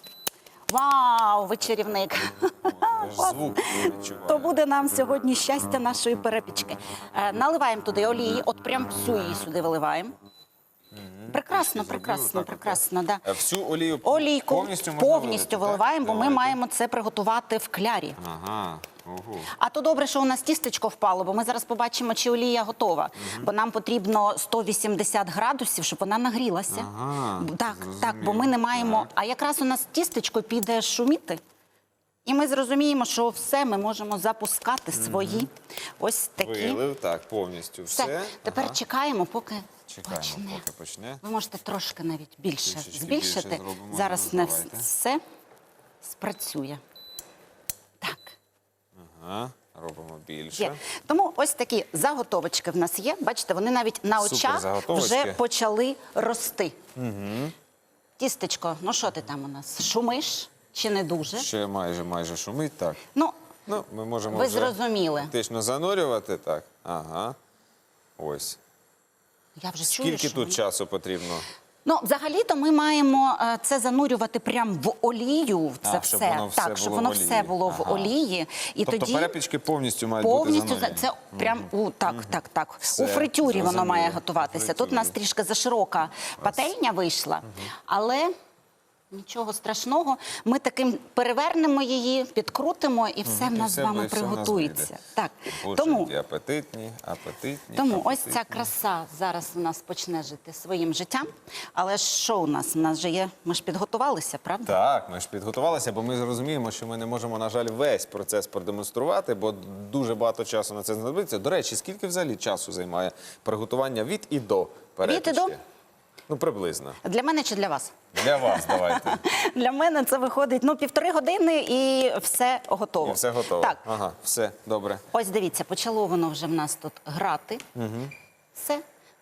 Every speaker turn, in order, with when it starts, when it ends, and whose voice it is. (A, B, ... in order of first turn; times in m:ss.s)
0:00.7-0:10.2 A
0:02.6-0:04.6 B
0:10.9-0:16.6 B
0:11.3-0:13.2 A
0:14.0-0:18.2 A
0:18.2-0:19.5 B
0:19.5-0:31.4 A
0:23.2-0:23.5 B
0:26.7-0:29.1 B
0:32.2-0:36.8 A
0:34.9-0:35.5 B
0:36.4-0:38.8 B
0:37.9-0:40.6 A
0:39.9-0:41.2 B
0:41.2-0:45.2 A
0:42.6-0:44.9 B
0:46.0-0:46.8 A
0:48.0-0:48.4 A
0:49.0-0:50.8 B
0:50.6-0:56.8 A
0:54.2-0:55.4 B
0:57.0-0:57.5 B
0:58.2-1:01.5 A
1:01.3-1:03.0 B
1:03.7-1:07.4 B
1:04.3-1:05.3 A
1:08.2-1:08.6 B
1:09.6-1:10.6 A
1:09.9-1:11.5 B
1:11.8-1:19.4 A
1:15.8-1:18.1 B
1:18.9-1:22.4 B
1:20.2-1:28.3 A
1:22.9-1:25.2 B
1:26.4-1:26.6 B
1:29.1-1:36.1 A
1:33.3-1:34.9 B
1:35.6-1:38.7 B
1:37.8-1:44.8 A
1:44.6-1:55.6 B
1:55.0-1:55.6 A
1:56.3-1:57.0 B
1:57.0-2:03.8 A
1:58.2-1:59.2 B
2:03.0-2:05.0 B
2:05.1-2:07.6 A
2:07.8-2:08.1 B
2:08.5-2:08.8 A